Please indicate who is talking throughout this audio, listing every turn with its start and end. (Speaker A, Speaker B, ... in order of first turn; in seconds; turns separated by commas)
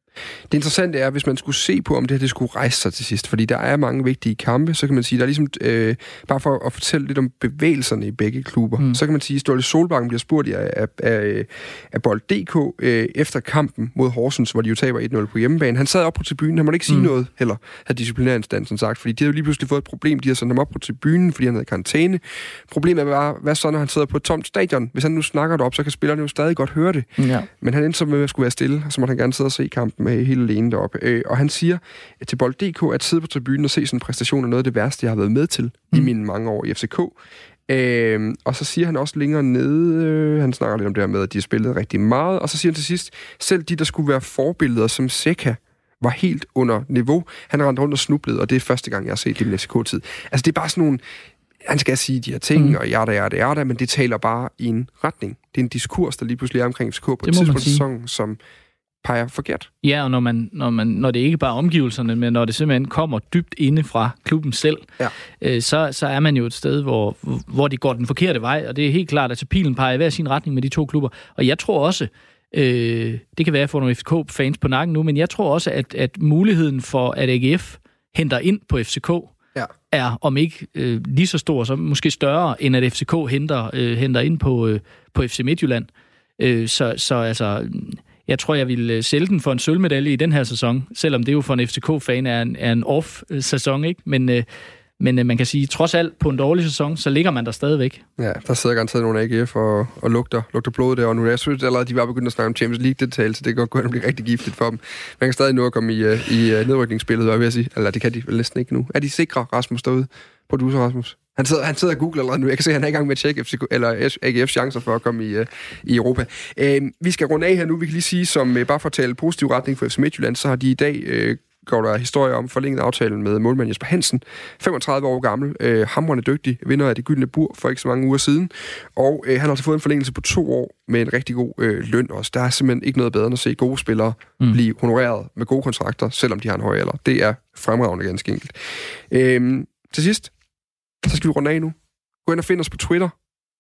Speaker A: 0.5-37.1, Speaker B: 27.2-27.5, Speaker A: 37.7-51.0, Speaker A: 51.7-58.4, Speaker B: 57.2-57.9, Speaker A: 59.0-59.7, Speaker B: 59.8-64.9, Speaker B: 65.4-79.3, Speaker B: 79.9-94.5, Speaker B: 95.0-98.0, Speaker A: 98.2-140.3, Speaker A: 141.0-143.1